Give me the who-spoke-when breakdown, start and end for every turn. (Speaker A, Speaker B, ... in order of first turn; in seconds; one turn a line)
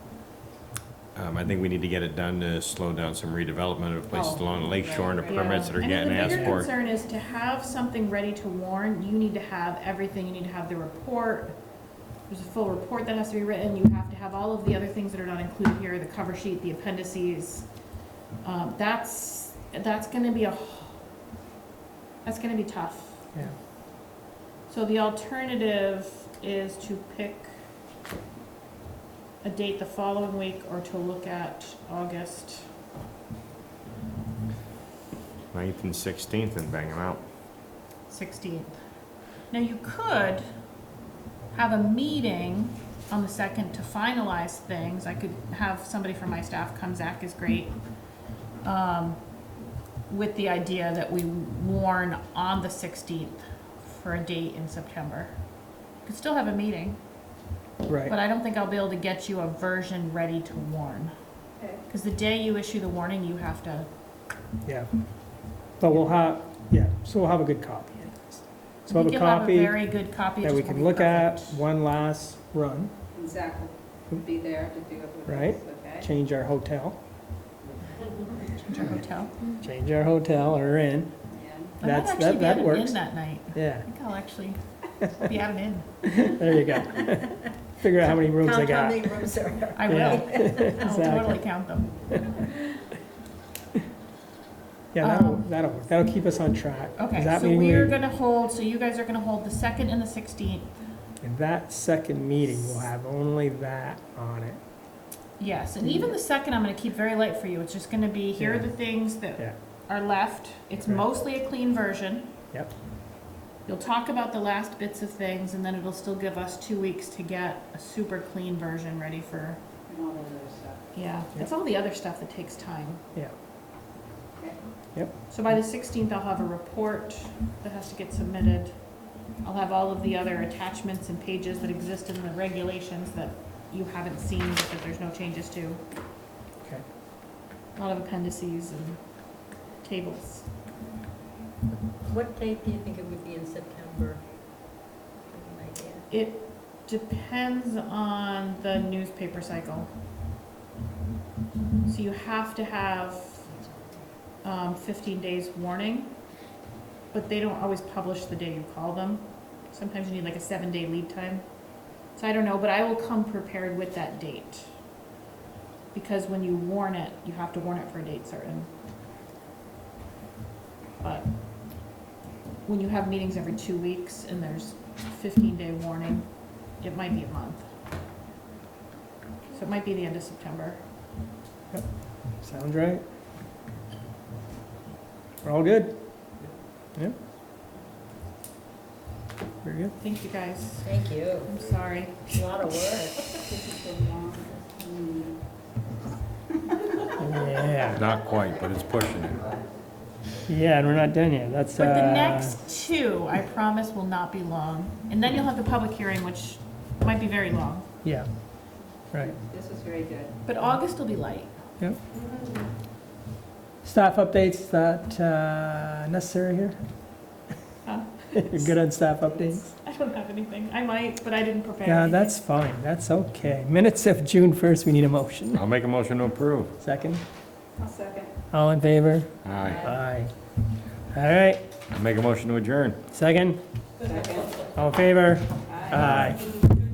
Speaker A: 1.1-6.7
Speaker B: 4.1-5.6
Speaker C: 5.3-11.6
Speaker C: 12.3-17.7
Speaker C: 18.4-21.0
Speaker C: 22.2-23.3
Speaker C: 24.7-27.5
Speaker C: 29.4-32.7
Speaker A: 35.5-37.2
Speaker C: 38.1-38.8
Speaker C: 39.5-40.5
Speaker C: 41.5-47.7
Speaker C: 48.6-49.2
Speaker C: 50.1-55.4
Speaker C: 56.0-57.0
Speaker D: 57.9-58.1
Speaker C: 58.0-61.1
Speaker C: 61.9-63.9
Speaker D: 64.6-64.9
Speaker D: 65.8-72.9
Speaker C: 68.9-71.6
Speaker B: 73.1-76.0
Speaker D: 75.2-77.0
Speaker C: 78.4-79.5
Speaker D: 79.6-81.1
Speaker B: 81.3-81.7
Speaker C: 81.8-86.1
Speaker D: 81.8-83.0
Speaker D: 83.5-83.8
Speaker D: 86.1-89.3
Speaker E: 88.3-90.7
Speaker C: 89.7-91.9
Speaker D: 89.8-91.4
Speaker D: 94.9-98.0
Speaker C: 95.0-95.5
Speaker C: 97.0-100.8
Speaker D: 101.2-104.6
Speaker C: 105.4-112.3
Speaker D: 105.8-106.1
Speaker D: 108.4-109.5
Speaker C: 113.7-119.6
Speaker B: 119.9-120.8
Speaker C: 120.9-123.0
Speaker C: 125.3-128.8
Speaker C: 129.4-135.8
Speaker C: 137.8-139.0
Speaker C: 139.8-140.5
Speaker E: 142.0-144.2
Speaker E: 145.3-146.1
Speaker C: 146.1-149.9
Speaker C: 151.8-153.5
Speaker C: 154.4-156.2
Speaker C: 157.1-161.4
Speaker C: 162.1-164.7
Speaker C: 165.9-168.7
Speaker C: 171.0-171.3
Speaker C: 172.6-177.7
Speaker C: 179.5-180.8
Speaker D: 182.4-183.0
Speaker D: 185.4-186.0
Speaker D: 189.6-189.9
Speaker C: 190.0-190.9
Speaker E: 190.8-191.5
Speaker C: 191.4-192.4
Speaker E: 192.3-193.4
Speaker B: 193.5-195.4
Speaker D: 197.2-198.0
Speaker A: 197.9-199.4
Speaker D: 200.5-202.6
Speaker C: 201.8-207.9
Speaker B: 209.2-210.3
Speaker C: 210.4-211.5
Speaker D: 213.8-216.8
Speaker C: 217.8-218.8
Speaker D: 218.3-219.6
Speaker C: 219.5-222.4
Speaker D: 221.8-225.6
Speaker A: 225.5-226.7
Speaker D: 226.8-227.2
Speaker B: 227.8-228.3
Speaker D: 228.5-230.3
Speaker A: 229.4-229.9
Speaker D: 231.1-231.6
Speaker A: 231.9-233.0
Speaker D: 233.1-233.6
Speaker B: 234.0-234.6
Speaker D: 234.7-236.4
Speaker B: 235.7-236.0
Speaker A: 236.0-236.4